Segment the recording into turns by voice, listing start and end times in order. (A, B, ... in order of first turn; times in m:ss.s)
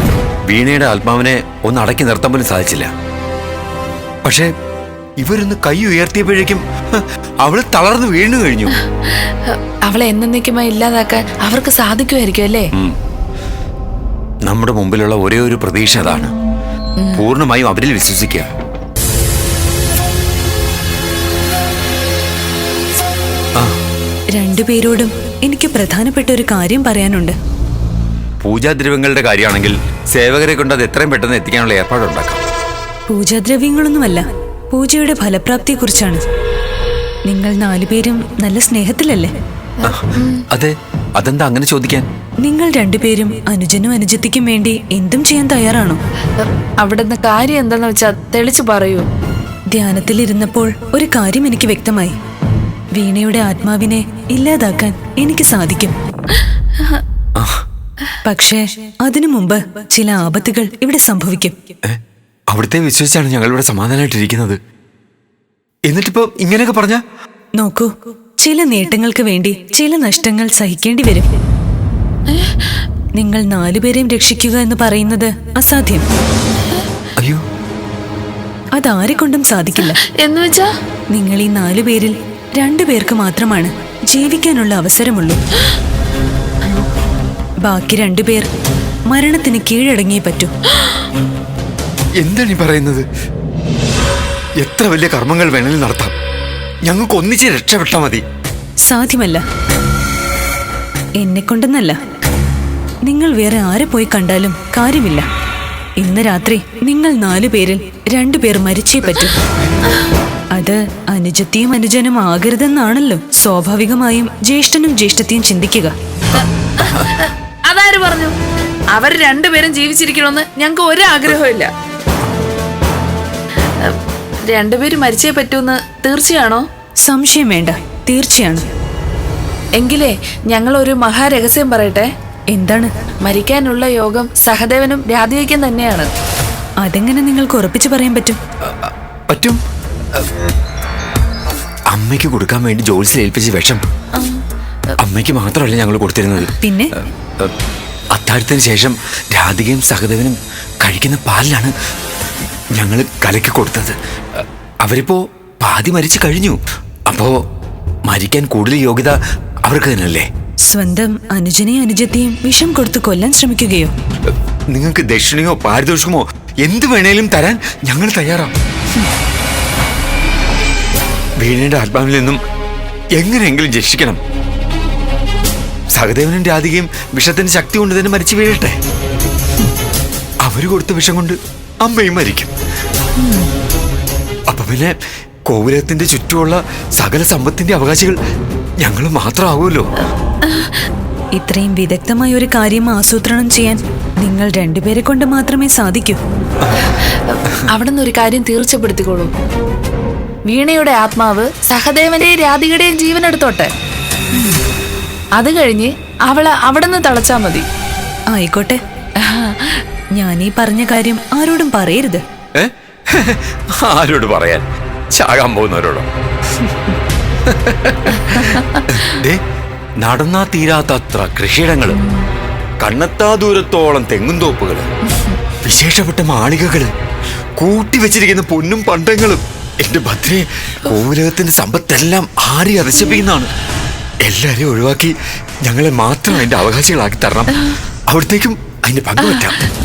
0:00.5-0:02.9 A
0:04.2-0:04.5 A
0:05.2-0:08.7 A
0:09.1-0:12.7 B
0:14.5-0:16.3 A
0:17.1-0:18.5 A
0:24.4-0:27.4 C
0:28.4-0:32.4 A
0:33.1-0:36.2 C
0:37.3-0:39.3 C
0:39.8-0:40.4 B
0:39.8-0:42.1 A
0:42.4-0:46.0 C
0:46.4-0:49.0 B
0:49.7-0:52.1 C
0:53.0-0:55.9 C
0:58.2-1:01.6 C
1:01.8-1:04.6 A
1:05.9-1:07.0 A
1:07.6-1:11.3 C
1:12.3-1:12.6 B
1:13.2-1:16.0 C
1:18.8-1:20.0 C
1:20.0-1:20.7 B
1:21.1-1:25.4 C
1:27.6-1:28.5 C
1:29.1-1:30.5 C
1:32.2-1:33.1 A
1:34.6-1:36.1 A
1:36.8-1:38.2 A
1:38.8-1:39.4 C
1:41.2-1:42.0 C
1:43.0-1:45.2 C
1:46.0-1:49.3 C
1:50.5-1:55.9 C
1:56.8-1:58.3 B
1:59.0-2:01.7 B
2:04.5-2:06.6 B
2:07.0-2:08.6 C
2:09.8-2:12.1 B
2:12.5-2:12.9 C
2:13.2-2:16.1 B
2:16.8-2:18.4 C
2:18.7-2:19.6 A
2:21.9-2:23.8 A
2:24.2-2:24.4 B
2:25.0-2:26.5 A
2:26.6-2:26.9 C
2:28.1-2:31.7 A
2:32.8-2:34.0 A
2:34.8-2:37.3 A
2:38.1-2:40.3 A
2:40.7-2:43.9 C
2:44.7-2:48.5 A
2:51.4-2:52.4 A
2:53.2-2:54.2 A
2:55.9-2:58.8 A
3:00.4-3:02.5 A
3:03.2-3:03.5 C
3:04.5-3:05.0 A
3:05.5-3:08.2 A
3:08.8-3:09.9 A
3:11.4-3:16.2 C
3:17.3-3:19.3 B
3:20.5-3:23.7 B
3:25.4-3:27.6 B
3:28.3-3:28.8 C
3:29.2-3:29.8 B
3:30.2-3:32.2 C
3:32.6-3:36.1 A
3:37.5-3:39.4 A
3:40.0-3:42.0 A
3:42.8-3:44.9 A
3:45.6-3:46.9 A
3:47.6-3:53.5 A
3:54.2-3:59.7 A